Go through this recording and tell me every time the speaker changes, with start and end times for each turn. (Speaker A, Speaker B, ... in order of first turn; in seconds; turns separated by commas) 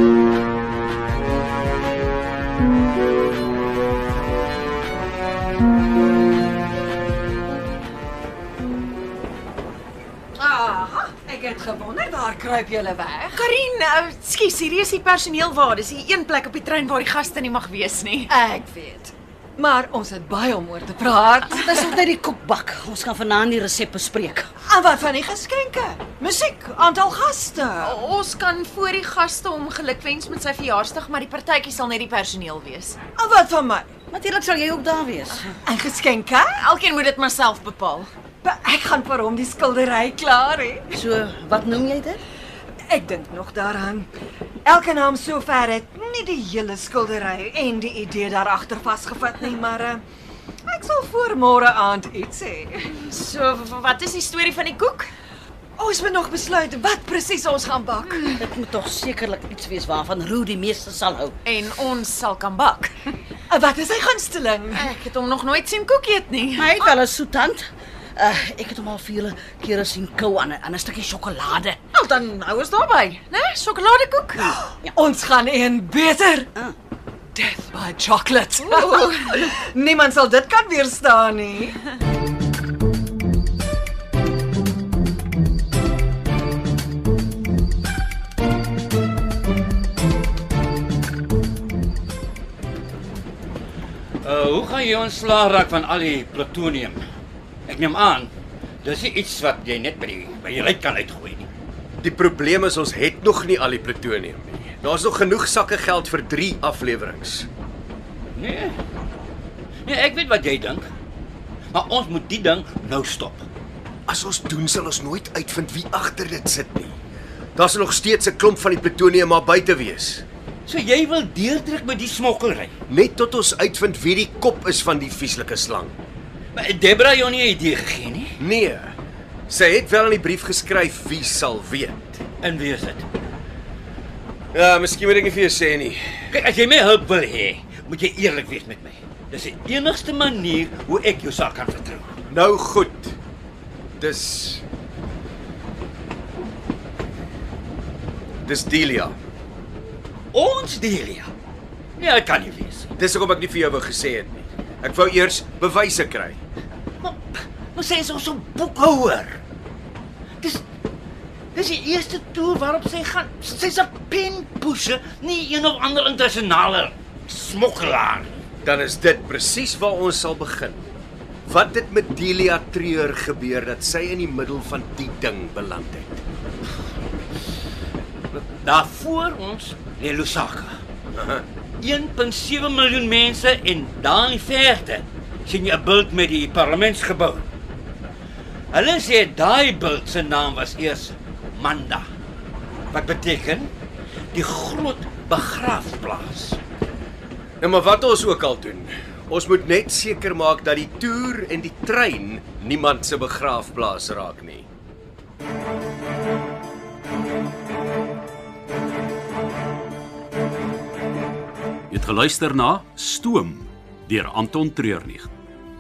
Speaker A: 10.4-13.4, Speaker B: 13.3-18.3, Speaker A: 18.3-21.9, Speaker C: 21.5-24.5, Speaker A: 24.7-28.0, Speaker B: 27.8-33.0, Speaker A: 33.2-33.9, Speaker C: 34.1-35.5, Speaker A: 35.7-36.6, Speaker B: 36.6-38.1, Speaker A: 38.4-40.9, Speaker C: 40.9-42.2, Speaker A: 42.9-44.1, Speaker A: 44.6-50.0, Speaker A: 50.7-52.9, Speaker B: 52.9-55.1, Speaker A: 55.8-58.4, Speaker C: 58.4-61.4, Speaker B: 61.5-63.1, Speaker A: 63.5-64.9, Speaker B: 64.7-67.0, Speaker C: 66.6-71.8, Speaker B: 71.9-74.6, Speaker A: 74.9-76.5, Speaker A: 77.3-81.8, Speaker B: 78.6-79.5, Speaker D: 94.2-97.0, Speaker D: 97.7-98.3, Speaker D: 98.8-101.5, Speaker E: 102.0-107.5, Speaker D: 108.4-108.8, Speaker D: 109.8-110.9, Speaker D: 111.7-113.5, Speaker E: 114.1-117.0, Speaker E: 117.6-120.2, Speaker D: 120.7-122.7, Speaker E: 122.9-125.9, Speaker D: 126.5-128.3, Speaker E: 128.4-128.9, Speaker E: 129.5-132.2, Speaker D: 132.4-133.1, Speaker E: 134.5-136.0, Speaker D: 136.3-142.2, Speaker E: 142.3-143.2, Speaker E: 144.0-144.6, Speaker E: 148.4-149.2, Speaker D: 150.3-151.3, Speaker D: 152.0-152.9, Speaker E: 153.0-156.4, Speaker D: 157.0-159.4, Speaker D: 161.6-168.4, Speaker E: 168.6-170.8, Speaker E: 171.5-176.2, Speaker D: 178.3-180.8, Speaker E: 181.1-181.4, Speaker D: 181.8-187.4, Speaker D: 188.7-192.1, Speaker D: 192.9-193.7, Speaker D: 194.3-196.6, Speaker E: 197.6-204.7, Speaker F: 211.9-215.3